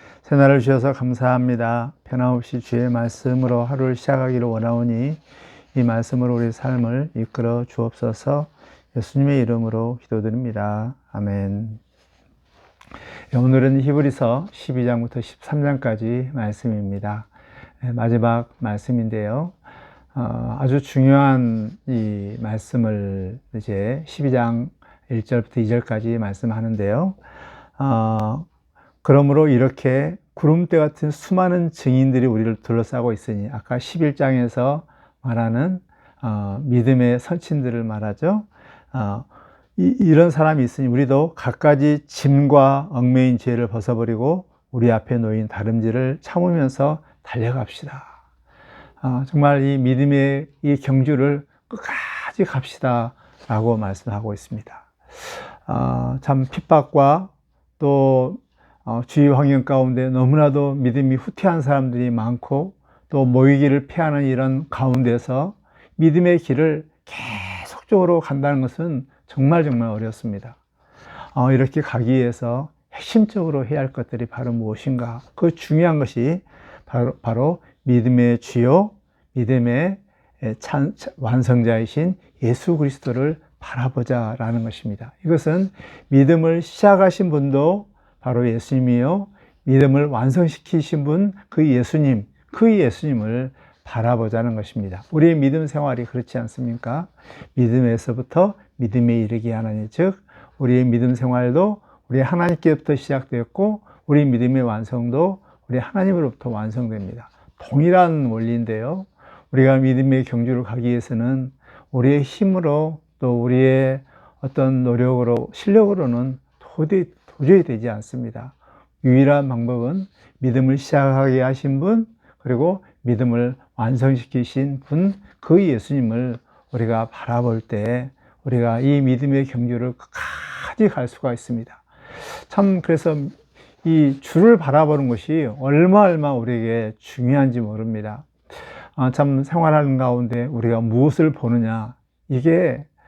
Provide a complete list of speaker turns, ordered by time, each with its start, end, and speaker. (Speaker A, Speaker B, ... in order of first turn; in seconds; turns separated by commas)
Speaker A: 0.2-5.2, Speaker A: 5.7-11.8, Speaker A: 13.3-17.3, Speaker A: 17.8-19.6, Speaker A: 20.1-27.2, Speaker A: 27.8-28.5, Speaker A: 29.0-48.1, Speaker A: 49.0-70.6, Speaker A: 71.3-138.3, Speaker A: 138.9-142.9